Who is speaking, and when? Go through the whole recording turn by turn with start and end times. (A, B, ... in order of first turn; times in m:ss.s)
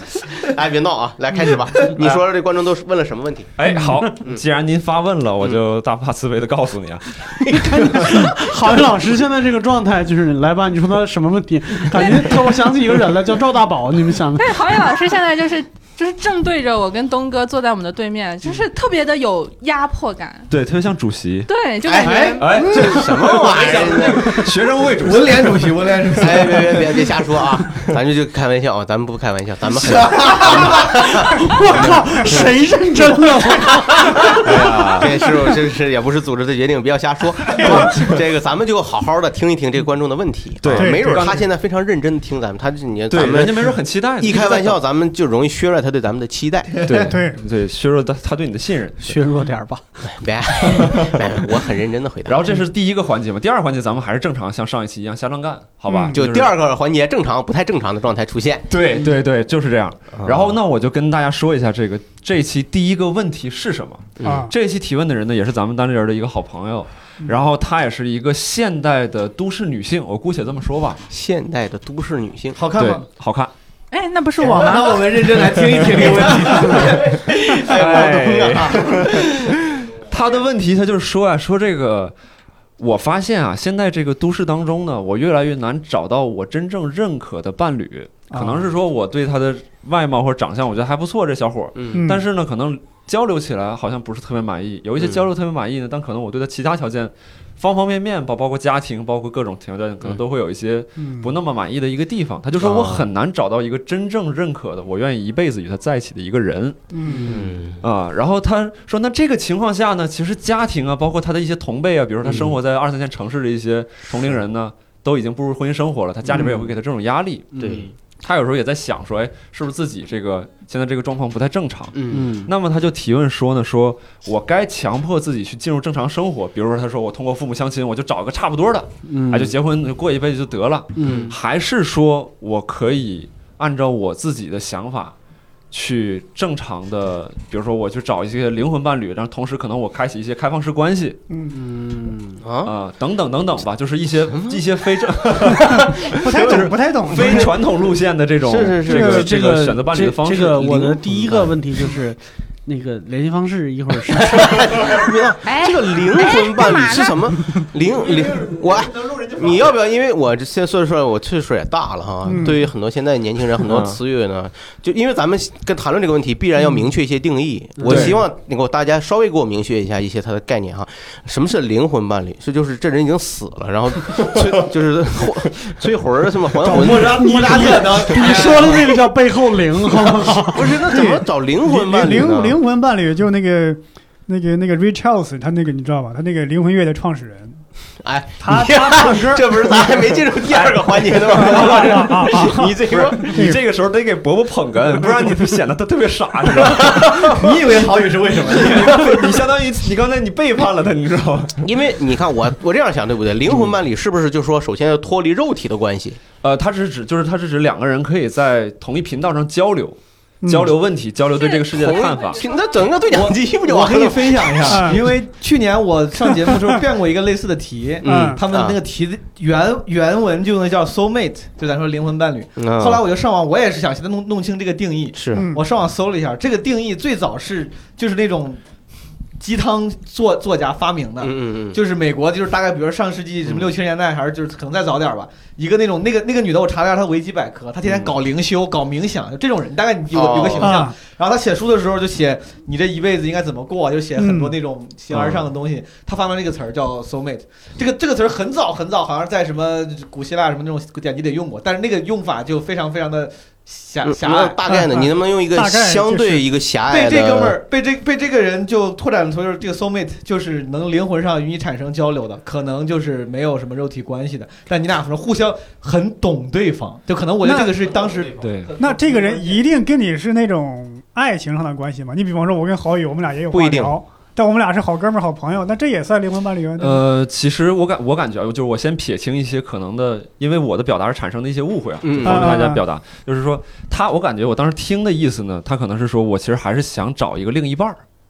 0:00.4-0:03.5 A
0:03.6-0:08.2 B
0:07.5-0:14.6 C
0:14.4-0:20.5 D
0:20.5-0:21.5 B
0:21.5-0:22.6 D
0:21.8-0:24.5 A
0:22.4-0:25.7 B
0:23.8-0:24.3 E
0:25.0-0:26.9 E
0:26.2-0:32.6 A
0:29.8-0:31.0 E
0:31.3-0:34.4 C
0:34.1-0:46.9 A
0:34.7-0:35.1 B
0:37.5-0:38.1 F
0:40.6-0:41.4 B
0:40.7-0:41.3 F
0:43.1-0:44.8 B
0:46.8-0:49.2 B
0:46.9-0:47.4 F
0:49.0-0:49.8 C
0:50.0-0:52.5 A
0:50.6-0:51.3 B
0:52.3-0:56.5 B
0:56.1-0:58.7 A
0:58.7-1:11.0 B
1:00.2-1:00.5 A
1:04.2-1:04.4 A
1:04.2-1:04.5 F
1:11.1-1:12.6 A
1:12.6-1:13.0 E
1:12.8-1:13.5 B
1:13.9-1:15.2 D
1:14.4-1:17.2 E
1:15.9-1:19.5 A
1:17.6-1:22.1 B
1:22.8-1:46.8 B
1:28.3-1:28.7 F
1:31.8-1:32.0 A
1:31.9-1:32.2 F
1:41.0-1:41.3 F
1:42.6-1:43.0 A
1:46.9-1:47.3 F
1:47.1-1:47.8 A
1:47.8-2:15.1 B
1:52.2-1:52.5 A
1:56.3-1:56.7 A
1:57.5-1:57.8 C
1:57.6-1:57.9 A
2:01.9-2:02.4 A
2:02.1-2:02.5 C
2:09.1-2:09.5 C
2:11.0-2:11.3 C
2:11.0-2:11.3 A
2:15.7-2:21.2 B
2:21.3-2:21.6 F
2:21.5-2:22.2 C
2:22.3-2:22.7 A
2:22.6-2:31.4 B
2:24.3-2:24.6 A
2:25.5-2:27.6 F
2:28.4-2:29.3 A
2:28.8-2:34.6 C
2:34.2-2:57.2 A
2:35.4-2:37.2 D
2:39.0-2:39.4 E
2:42.3-2:42.6 F
2:43.6-2:44.0 B
2:47.8-2:48.1 C
2:47.8-2:48.2 B
2:56.6-2:58.8 E
2:56.7-3:00.7 C
2:58.4-2:58.8 A
3:00.2-3:02.6 A
3:00.8-3:07.6 F
3:08.0-3:13.4 A
3:08.4-3:09.8 F
3:11.3-3:13.6 F
3:11.3-3:21.6 B
3:16.7-3:19.4 E
3:21.6-3:26.2 A
3:26.4-3:32.5 B
3:30.4-3:30.7 F
3:31.5-3:35.0 A
3:33.1-3:48.6 E
3:34.7-3:35.0 F
3:38.0-3:38.8 A
3:38.0-3:38.4 F
3:42.6-3:43.0 A
3:45.1-3:45.4 A
3:45.3-3:45.6 F
3:49.4-4:14.6 E
3:51.2-3:51.8 A
3:57.9-3:58.1 B
4:00.1-4:00.8 A
4:00.6-4:01.0 F
4:04.2-4:04.5 F
4:05.1-4:05.4 B
4:14.0-4:17.6 A
4:14.7-4:16.4 F
4:16.9-4:29.6 E
4:27.4-4:27.8 F
4:28.4-4:28.7 B
4:28.8-4:37.0 F
4:33.5-4:34.0 A
4:36.8-4:48.0 B
4:42.0-4:42.6 A
4:42.2-4:42.8 F